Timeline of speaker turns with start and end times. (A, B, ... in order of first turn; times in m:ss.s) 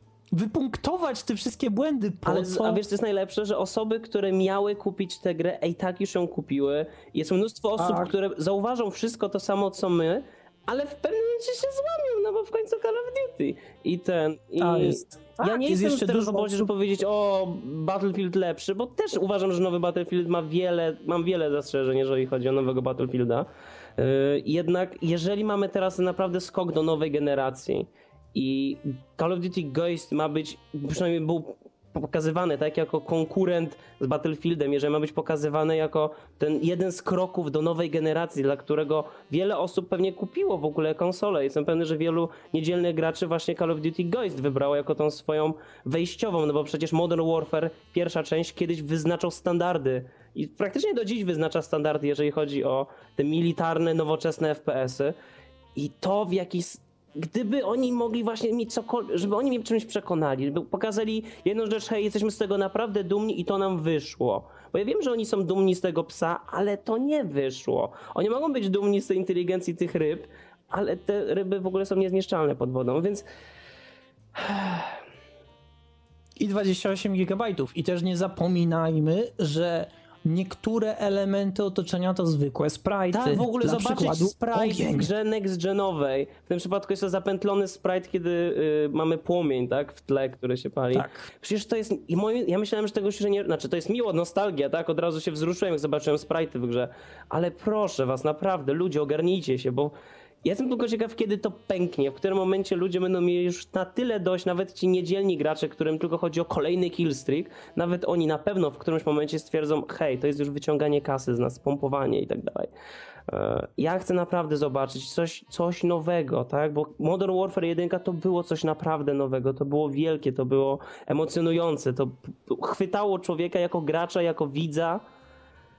0:00.3-0:02.8 A
0:02.3-0:55.2 B
0:07.8-0:08.1 A
0:14.6-0:16.7 A
0:55.8-1:13.2 B
1:14.4-1:15.0 B
1:16.4-1:25.1 A
1:23.1-1:52.7 B
1:30.9-1:31.3 A
1:53.3-2:05.0 B